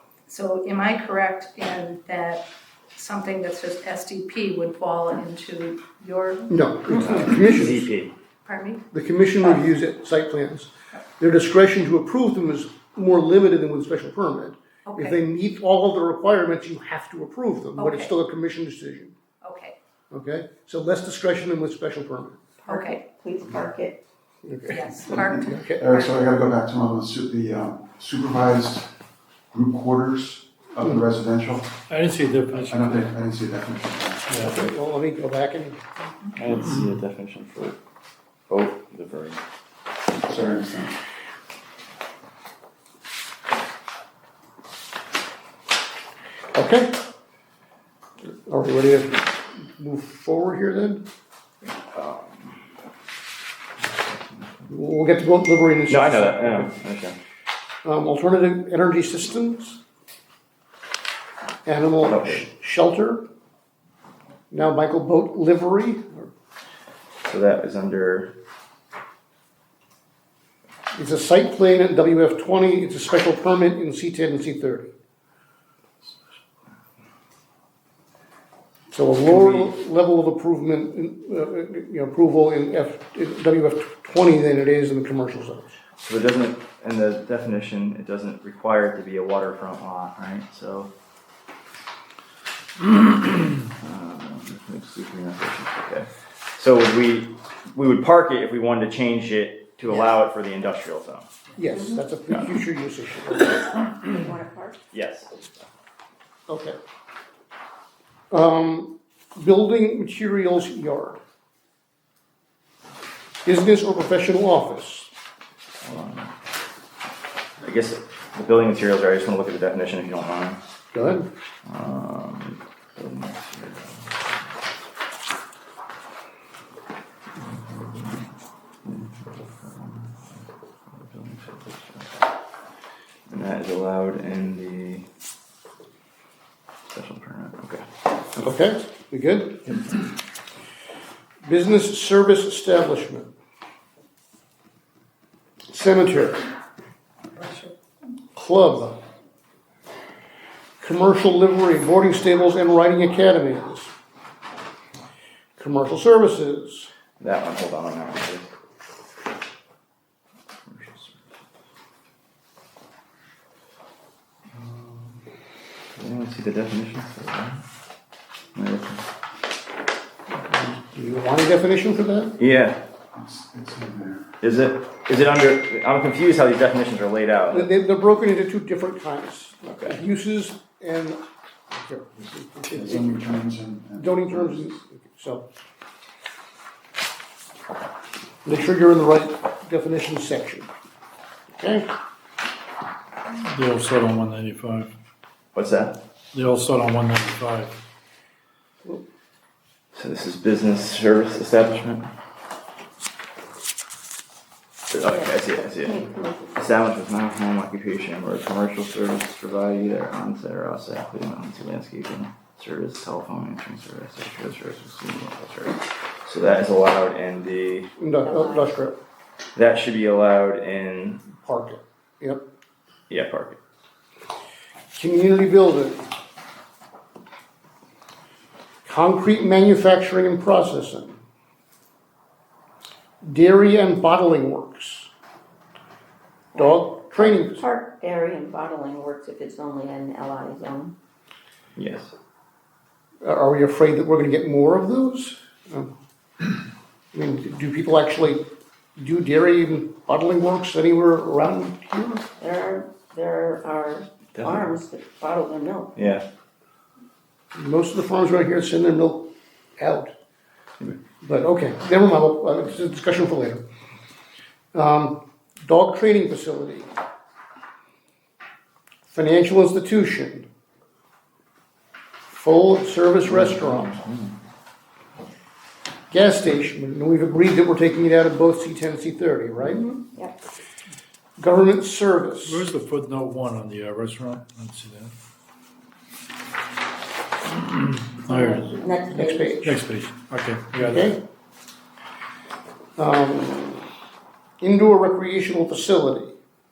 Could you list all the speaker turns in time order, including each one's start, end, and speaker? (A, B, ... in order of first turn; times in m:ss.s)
0:00.3-0:06.6 A
0:06.5-0:07.9 B
0:06.9-0:08.1 C
0:08.4-0:08.8 A
0:08.9-0:19.1 B
0:14.8-0:15.2 A
0:17.8-0:18.1 A
0:19.4-0:19.8 A
0:20.1-0:22.4 B
0:22.6-0:24.0 D
0:22.7-0:23.0 A
0:24.4-0:24.8 B
0:24.7-0:26.2 A
0:25.1-0:28.9 E
0:25.5-0:25.8 B
0:29.5-0:31.7 E
0:31.9-0:33.1 F
0:32.5-0:34.4 E
0:34.3-0:34.6 F
0:34.4-0:35.8 B
0:36.0-0:36.4 A
0:36.4-0:37.8 C
0:38.5-0:39.4 C
0:40.2-0:41.0 E
0:46.5-0:47.0 B
0:48.2-0:51.0 B
0:51.9-0:52.6 C
0:53.8-0:54.4 C
0:54.7-0:56.7 B
0:55.9-0:57.2 C
0:57.8-0:59.8 B
1:01.6-1:03.2 B
1:02.0-1:02.4 C
1:04.5-1:06.3 B
1:07.2-1:08.3 C
1:10.9-1:14.9 B
1:18.9-1:25.7 B
1:19.2-1:19.7 C
1:26.0-1:30.9 C
1:32.8-1:41.3 C
1:41.6-1:43.6 B
1:43.8-1:44.8 D
1:44.9-1:45.5 C
1:46.5-1:46.8 B
1:48.3-1:51.2 B
1:53.4-1:55.1 B
1:55.8-1:56.3 C
1:57.6-2:00.6 C
2:00.9-2:01.3 B
2:01.6-2:04.3 C
2:07.4-2:08.3 C
2:08.8-2:12.1 C
2:13.3-2:15.0 C
2:16.9-2:17.8 C
2:18.4-2:20.0 B
2:21.4-2:23.3 B
2:25.7-2:26.4 B
2:27.3-2:27.7 A
2:28.3-2:29.0 B
2:30.8-2:33.9 B
2:35.6-2:36.9 B
2:37.2-2:38.5 C
2:40.7-2:41.2 C
2:44.6-2:45.2 C
2:46.0-2:47.6 C
2:48.5-2:49.0 C
2:50.3-2:52.4 B
2:52.4-2:52.8 C
2:53.1-2:54.4 E
2:54.4-2:57.7 C
2:57.5-3:03.3 B
2:59.7-3:00.0 C
3:02.6-3:04.7 E
3:04.0-3:05.4 B
3:08.4-3:10.7 B
3:11.5-3:11.9 B
3:13.4-3:14.9 F
3:15.5-3:16.0 C
3:16.3-3:17.7 F
3:19.9-3:22.1 C
3:24.9-3:37.9 C
3:25.0-3:26.6 D
3:38.0-3:39.0 B
3:38.2-3:38.7 D
3:39.5-3:41.2 C
3:41.3-3:42.4 B
3:43.1-3:43.6 C
3:44.9-3:46.0 B
3:48.8-3:51.2 B
3:53.2-3:55.1 B
3:56.5-4:00.9 D
3:56.6-3:57.6 B
4:01.8-4:02.1 C
4:03.2-4:05.9 B
4:07.1-4:12.2 B
4:12.4-4:15.9 D
4:14.3-4:14.7 C
4:16.0-4:16.2 C
4:17.5-4:19.3 B
4:19.8-4:20.1 B
4:21.2-4:23.6 B
4:24.7-4:26.9 B
4:29.1-4:30.5 B
4:32.3-4:33.9 B
4:33.2-4:34.3 C
4:36.1-4:39.8 B
4:39.6-4:40.4 D
4:41.4-4:42.6 B
4:42.4-4:45.1 F
4:47.5-4:48.8 F
4:48.2-4:49.6 D
4:49.1-4:49.8 B
4:49.6-4:51.2 F
4:50.8-4:51.2 B
4:53.0-4:53.8 B
4:54.6-4:56.3 B